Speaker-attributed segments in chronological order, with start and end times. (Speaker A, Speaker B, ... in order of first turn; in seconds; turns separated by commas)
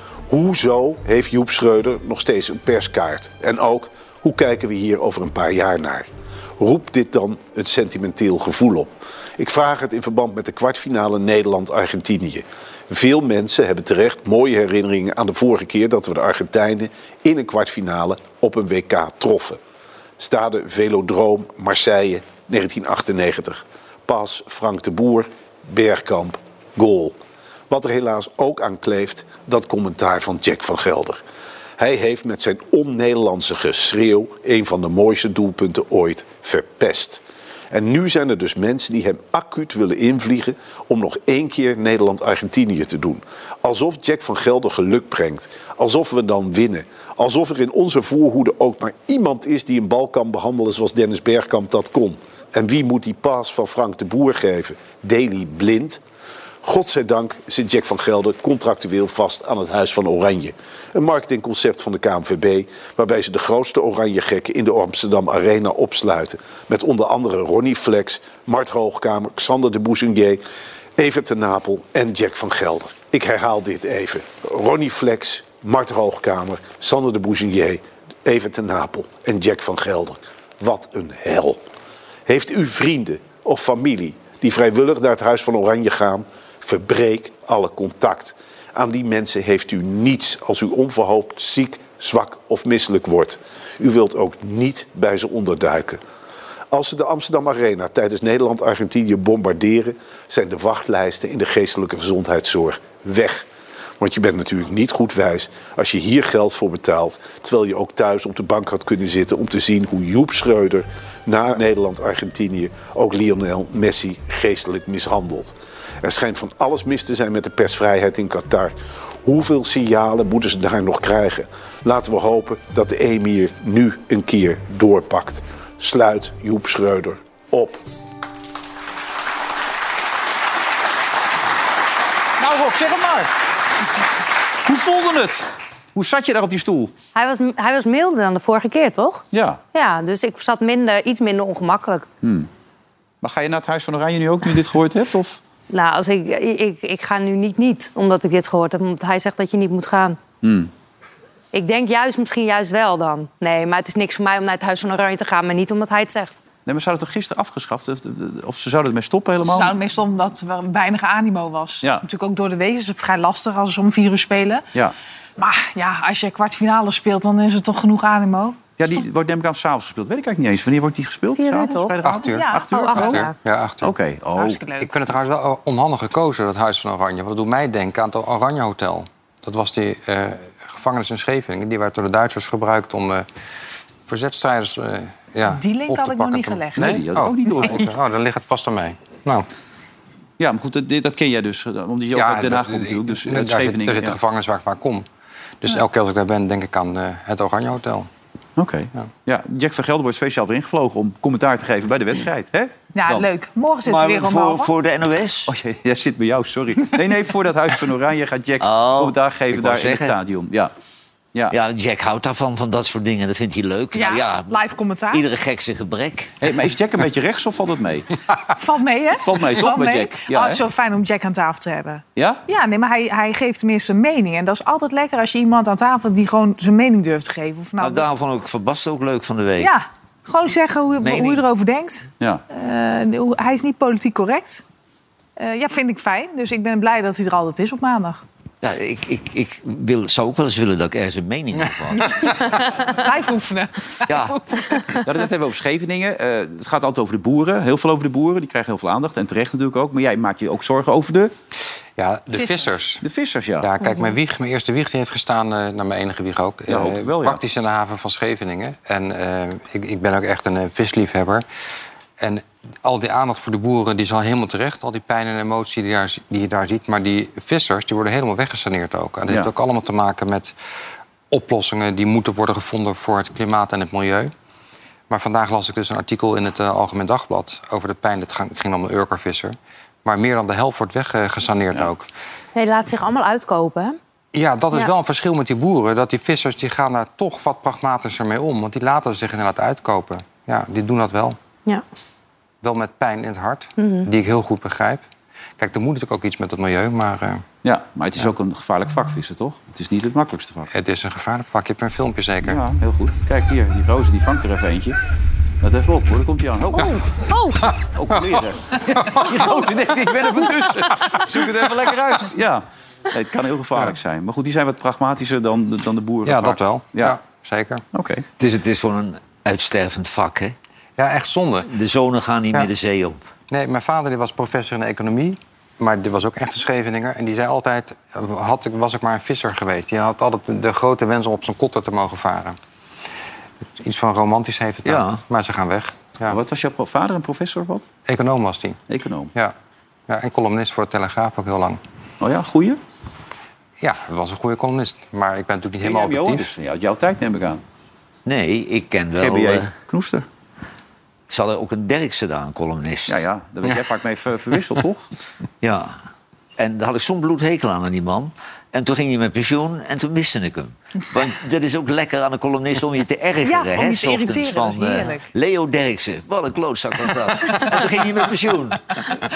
Speaker A: 0.3-19.6, Speaker A: 20.2-27.1, Speaker A: 27.7-31.2, Speaker A: 31.8-56.0, Speaker A: 56.6-70.4, Speaker A: 71.0-81.6, Speaker A: 82.3-96.0, Speaker A: 96.7-103.5, Speaker A: 104.0-127.8, Speaker B: 132.4-133.3, Speaker B: 134.6-136.9, Speaker C: 137.1-142.1, Speaker B: 139.3-139.6, Speaker B: 142.2-142.5, Speaker B: 143.2-145.4, Speaker C: 145.7-150.2, Speaker B: 150.4-150.7, Speaker C: 151.5-156.4, Speaker B: 156.7-159.8, Speaker D: 159.4-164.7, Speaker D: 165.4-169.0, Speaker B: 168.8-173.3, Speaker C: 171.4-172.0, Speaker E: 172.0-173.9, Speaker D: 172.2-173.2, Speaker C: 172.7-173.3, Speaker B: 173.8-174.6, Speaker D: 174.3-174.9, Speaker E: 174.8-183.3, Speaker E: 184.1-189.5, Speaker D: 185.4-187.7, Speaker B: 186.8-187.9, Speaker B: 190.4-194.2, Speaker E: 192.1-195.1, Speaker E: 195.6-198.1, Speaker B: 198.6-203.3, Speaker D: 202.9-204.7, Speaker F: 203.8-205.6, Speaker B: 205.5-210.7, Speaker F: 208.6-210.2, Speaker F: 211.5-216.3, Speaker D: 213.9-215.2, Speaker B: 216.4-218.1, Speaker D: 218.6-228.1, Speaker B: 219.2-220.6, Speaker B: 222.2-222.4, Speaker F: 227.8-229.7, Speaker D: 229.6-234.6, Speaker F: 231.0-231.4, Speaker D: 235.4-238.2, Speaker F: 238.6-242.3, Speaker D: 241.9-244.8, Speaker F: 244.1-244.4, Speaker B: 245.0-251.3, Speaker E: 252.0-253.0, Speaker B: 253.0-253.7, Speaker E: 253.6-261.4, Speaker B: 256.7-257.4, Speaker E: 262.2-270.5, Speaker E: 271.3-274.3, Speaker E: 275.1-282.1, Speaker C: 282.6-284.0, Speaker E: 284.3-291.4, Speaker E: 292.6-295.0, Speaker C: 293.8-294.1, Speaker E: 295.6-297.4, Speaker B: 297.6-300.7, Speaker E: 300.7-302.6, Speaker B: 302.4-305.0, Speaker B: 305.6-317.2, Speaker C: 306.8-307.7, Speaker E: 308.1-309.4, Speaker E: 316.2-317.8, Speaker B: 317.9-318.2, Speaker F: 318.4-320.6, Speaker E: 321.0-321.7, Speaker F: 321.7-323.2, Speaker E: 323.5-332.6, Speaker E: 333.8-336.4, Speaker F: 334.9-335.2, Speaker B: 336.3-337.9, Speaker E: 338.1-338.8, Speaker B: 338.9-339.3, Speaker E: 340.1-341.8, Speaker B: 342.2-342.8, Speaker E: 343.8-346.5, Speaker B: 345.8-347.6, Speaker F: 348.2-349.7, Speaker B: 349.2-350.3, Speaker F: 351.3-353.2, Speaker B: 353.1-355.1, Speaker F: 355.6-355.9, Speaker F: 356.6-368.9, Speaker D: 363.4-365.3